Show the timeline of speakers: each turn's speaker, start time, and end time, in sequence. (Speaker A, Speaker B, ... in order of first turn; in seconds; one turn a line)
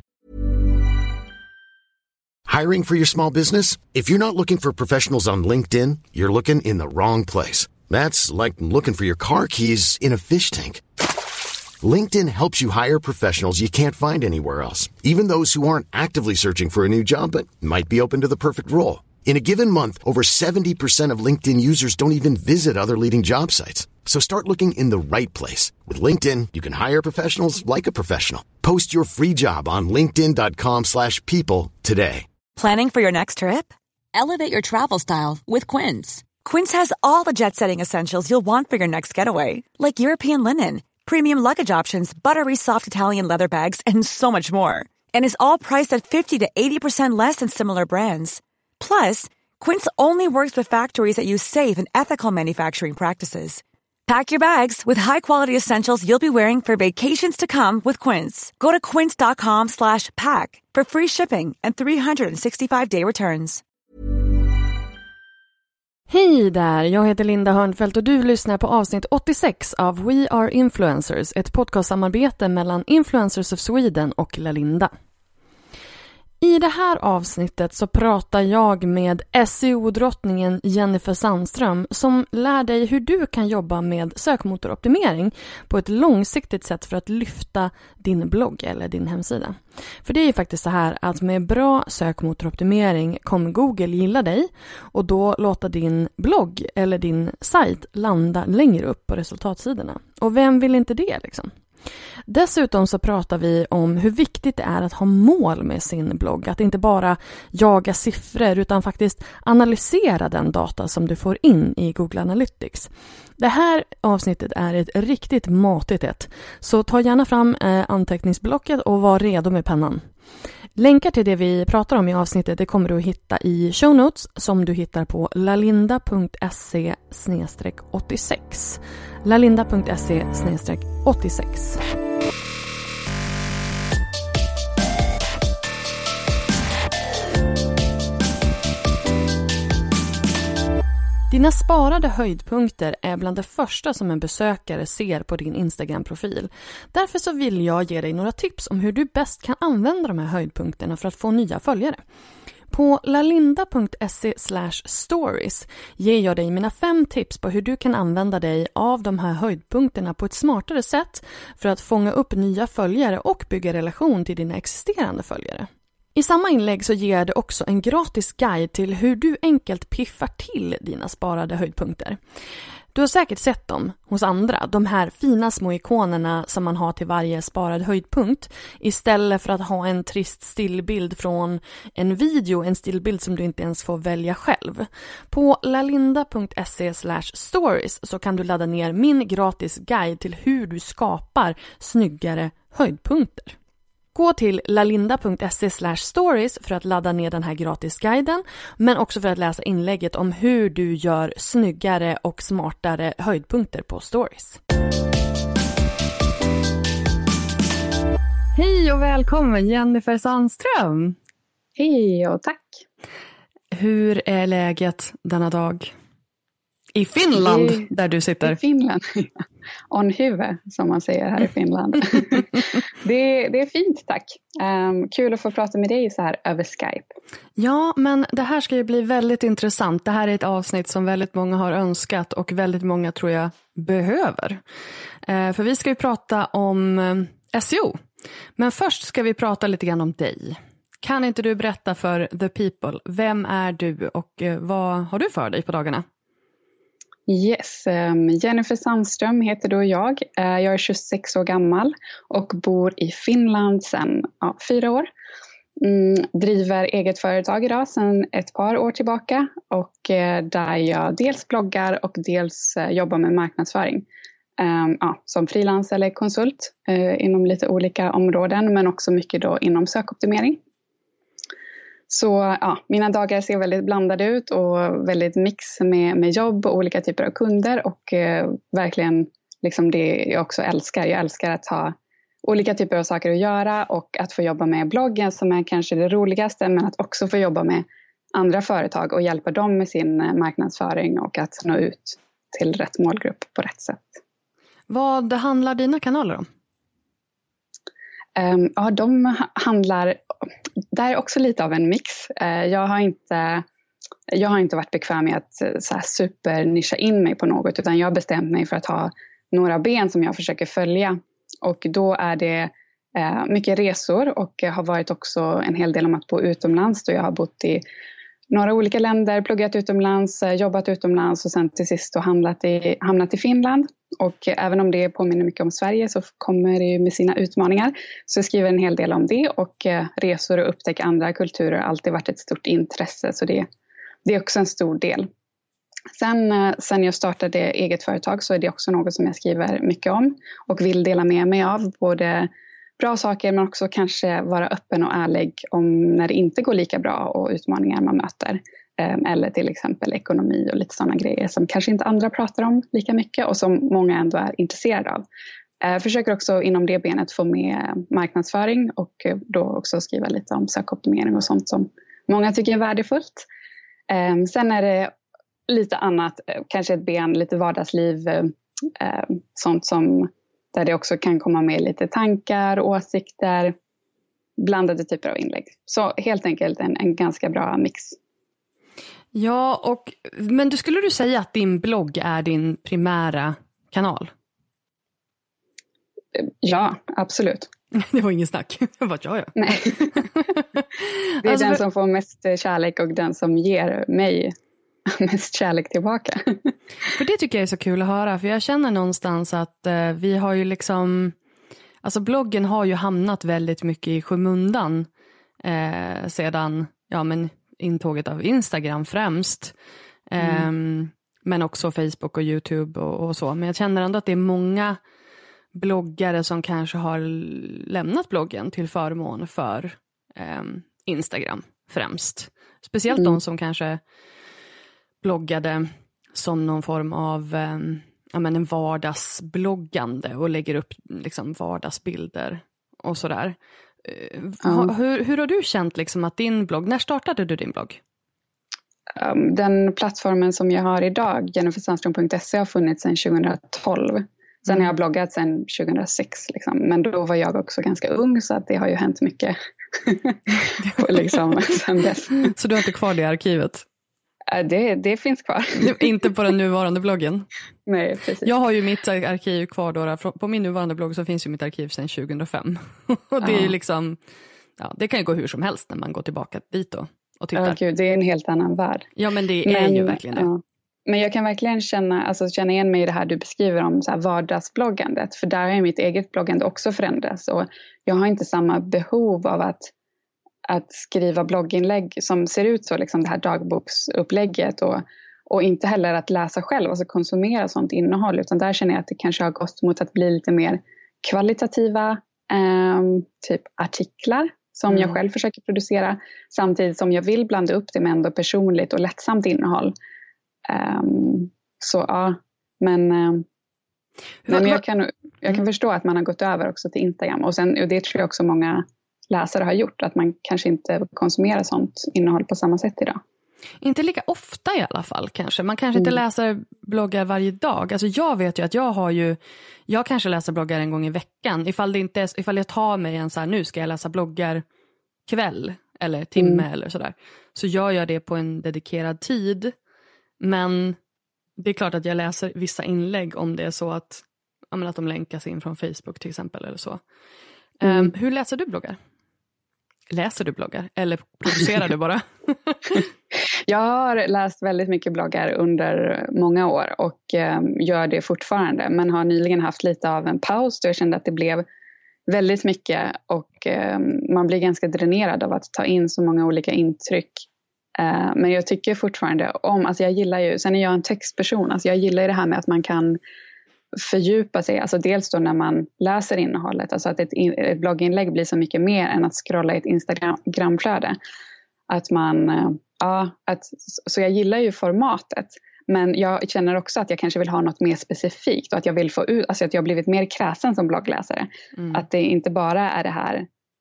Speaker A: 2.5-10.8
Speaker A: 11.8-32.3
Speaker B: 32.6-63.6
Speaker C: 66.1-74.9
Speaker C: 76.4-101.5
Speaker C: 102.3-120.0
Speaker C: 120.8-131.8
Speaker C: 141.3-152.0
Speaker C: 152.7-172.2
Speaker C: 172.9-193.6
Speaker C: 194.2-204.6
Speaker C: 208.6-211.2
Speaker D: 211.8-212.8
Speaker C: 213.7-215.9
Speaker C: 216.9-218.6
Speaker D: 217.2-217.9
Speaker D: 218.4-219.3
Speaker D: 219.9-227.1
Speaker C: 227.6-234.6
Speaker C: 235.3-238.0
Speaker C: 238.6-246.0
Speaker D: 247.3-255.1
Speaker D: 255.8-264.1
Speaker D: 264.6-270.6
Speaker D: 272.1-294.2
Speaker C: 294.9-296.5
Speaker D: 298.4-300.2
Speaker D: 300.9-303.6
Speaker D: 304.3-317.8
Speaker D: 318.5-333.7
Speaker D: 334.2-335.3
Speaker D: 336.1-355.2
Speaker D: 355.8-363.5
Speaker D: 364.1-365.1
Speaker D: 365.7-373.8
Speaker D: 374.6-378.2
Speaker C: 379.3-384.3
Speaker D: 386.4-387.7
Speaker C: 387.9-391.8
Speaker D: 389.6-390.2
Speaker D: 391.4-394.6
Speaker D: 395.1-396.7
Speaker C: 397.1-401.4
Speaker C: 402.0-405.1
Speaker C: 405.6-409.7
Speaker C: 410.3-415.0
Speaker D: 410.4-410.7
Speaker C: 415.7-424.0
Speaker D: 423.1-423.4
Speaker C: 425.2-438.0
Speaker D: 434.6-434.9
Speaker D: 439.2-452.5
Speaker C: 450.8-451.6
Speaker C: 452.4-453.9
Speaker D: 454.5-456.1
Speaker C: 455.8-457.5
Speaker D: 457.9-458.5
Speaker C: 458.4-464.2
Speaker D: 463.4-463.7
Speaker C: 464.8-467.8
Speaker D: 467.6-469.1
Speaker C: 469.2-470.5
Speaker D: 469.6-479.9
Speaker D: 480.7-499.9
Speaker C: 494.9-495.2
Speaker D: 500.7-503.4
Speaker C: 504.4-504.8
Speaker D: 504.5-513.2
Speaker C: 513.8-524.6
Speaker C: 525.3-529.7
Speaker D: 526.4-526.6
Speaker C: 530.4-531.0
Speaker C: 531.6-537.0
Speaker C: 537.8-539.0
Speaker D: 537.8-538.1
Speaker C: 540.1-543.0
Speaker D: 543.5-551.6
Speaker D: 552.3-557.5
Speaker D: 558.0-563.2
Speaker D: 563.9-571.2
Speaker D: 571.9-583.5
Speaker C: 581.8-582.0